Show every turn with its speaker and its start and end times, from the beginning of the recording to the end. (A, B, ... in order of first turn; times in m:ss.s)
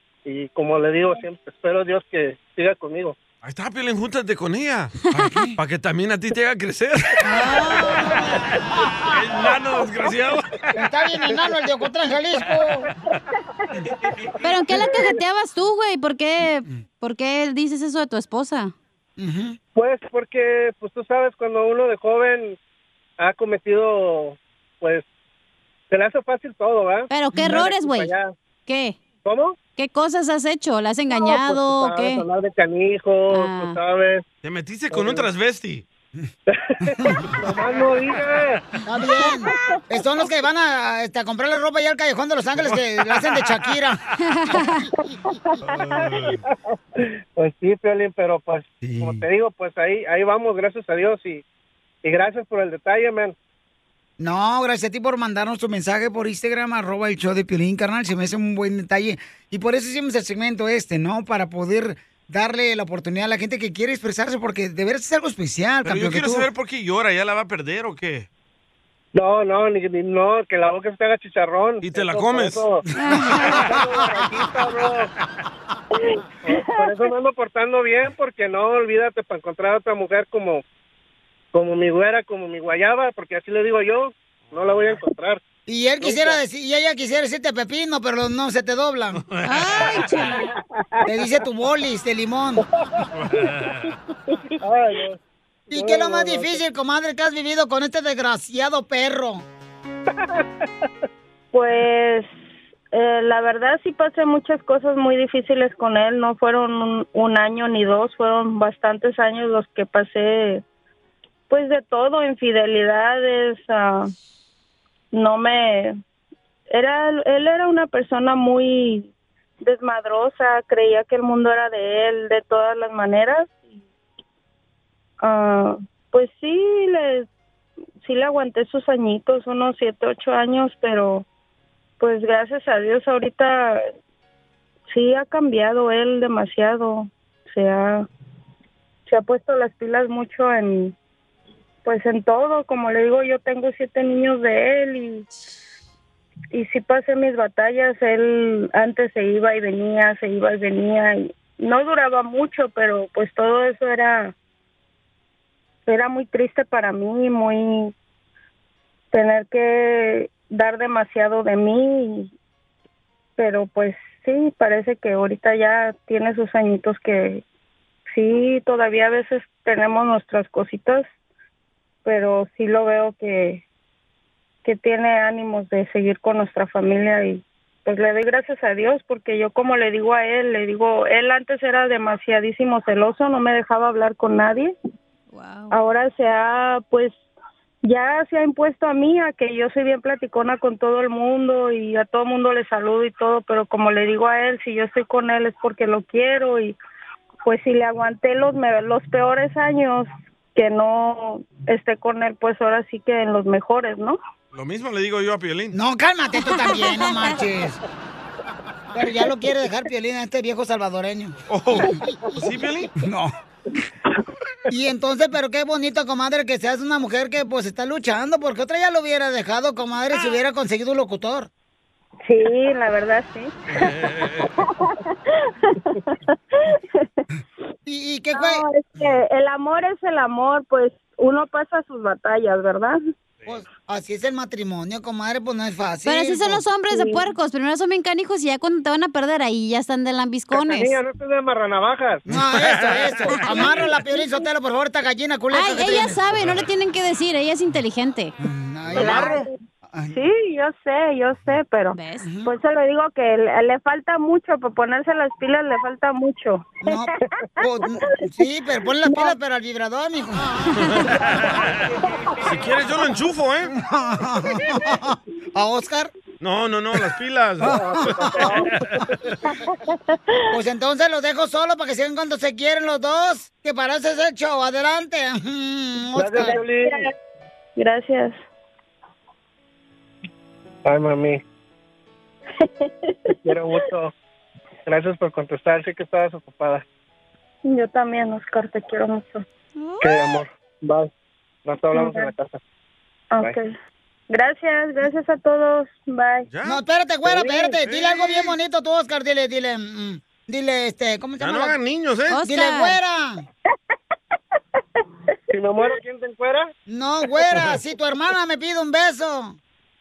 0:00.3-0:03.2 A
0:03.4-0:07.2 B
0:07.3-0:08.1 C
0:08.1-0:10.7 B
0:10.8-0:12.9 D
0:14.4-0:18.7 C
0:14.8-0:15.1 A
0:19.2-0:19.6 D
0:19.8-0:22.6 A
0:23.2-0:25.0 A
0:25.9-0:28.3 A
0:27.1-0:28.1 C
0:28.7-0:29.0 C
0:29.2-0:29.6 A
0:29.8-0:32.2 C
0:31.1-0:34.2 A
0:33.3-0:33.8 C
0:34.4-0:35.8 B
0:34.9-0:35.3 A
0:36.5-0:38.6 A
0:37.0-0:37.3 D
0:38.8-0:44.0 D
0:39.2-0:39.6 E
0:42.6-0:43.7 B
0:44.2-0:44.8 C
0:45.6-0:46.4 B
0:45.9-0:51.4 A
0:48.8-0:49.2 D
0:52.0-0:53.4 A
0:54.2-1:06.5 D
1:05.8-1:08.3 B
1:09.1-1:15.1 A
1:11.8-1:12.6 B
1:13.0-1:13.4 C
1:13.1-1:13.6 D
1:16.4-1:20.6 A
1:16.5-1:16.9 E
1:21.5-1:25.4 A
1:24.5-1:25.0 B
1:25.7-1:29.2 D
1:26.0-1:26.4 A
1:29.1-1:30.0 B
1:29.4-1:30.5 C
1:31.1-1:32.6 D
1:32.8-1:33.1 A
1:33.2-1:34.0 B
1:34.6-1:35.2 A
1:35.7-1:36.6 A
1:35.7-1:39.4 D
1:40.1-1:40.9 A
1:41.5-1:42.3 E
1:42.9-1:50.6 E
1:51.5-1:54.1 E
1:55.1-1:56.0 E
1:56.7-1:59.1 E
1:59.6-2:03.8 E
2:05.2-2:07.3 E
2:08.0-2:11.2 E
2:12.0-2:13.8 E
2:14.9-2:18.1 E
2:19.1-2:21.0 E
2:21.8-2:25.3 E
2:26.5-2:34.3 E
2:35.9-2:37.9 E
2:39.1-2:42.3 E
2:43.4-2:47.4 E
2:48.1-2:51.1 E
2:52.0-2:53.6 E
2:54.6-3:04.8 E
3:05.3-3:05.7 C
3:05.7-3:07.2 E
3:07.8-3:16.8 E
3:17.4-3:24.2 E
3:24.5-3:25.8 B
3:25.7-3:27.8 D
3:26.6-3:27.1 C
3:28.9-3:32.0 D
3:31.5-3:32.9 B
3:33.0-3:33.3 D
3:34.7-3:41.5 D
3:42.2-3:43.9 E
3:43.8-3:44.5 B
3:44.4-3:47.2 E
3:47.9-3:48.6 D
3:48.4-3:53.0 E
3:53.4-3:56.6 D
3:56.1-4:01.0 C
3:56.9-3:57.2 E
4:00.5-4:02.2 A
4:02.3-4:06.2 D
4:02.4-4:03.1 B
4:05.5-4:08.3 C
4:08.4-4:10.2 D
4:08.9-4:09.5 B
4:09.2-4:09.5 E
4:10.1-4:17.0 E
4:11.9-4:12.2 C
4:12.2-4:12.5 D
4:16.8-4:20.6 D
4:19.0-4:19.4 E
4:20.7-4:21.9 B
4:22.4-4:23.7 B
4:23.8-4:26.1 D
4:26.4-4:29.0 B
4:27.6-4:28.5 D
4:27.6-4:28.7 A
4:29.5-4:30.4 E
4:30.5-4:36.6 D
4:36.2-4:37.1 A
4:36.4-4:37.1 E
4:37.8-4:38.4 E
4:40.8-4:41.4 A
4:42.6-4:43.3 E
4:43.4-4:44.1 A
4:44.9-4:46.8 A
4:47.6-4:49.4 E
4:49.8-4:50.2 C
4:50.0-4:51.1 A
4:51.6-4:52.6 A
4:51.9-4:52.3 E
4:53.3-4:53.7 E
4:54.3-4:56.5 E
4:56.5-4:56.8 B
4:56.6-5:01.8 D
4:57.9-4:58.5 B
5:01.4-5:02.4 B
5:02.3-5:03.0 C
5:02.4-5:03.4 D
5:05.5-5:06.7 A
5:06.9-5:09.6 D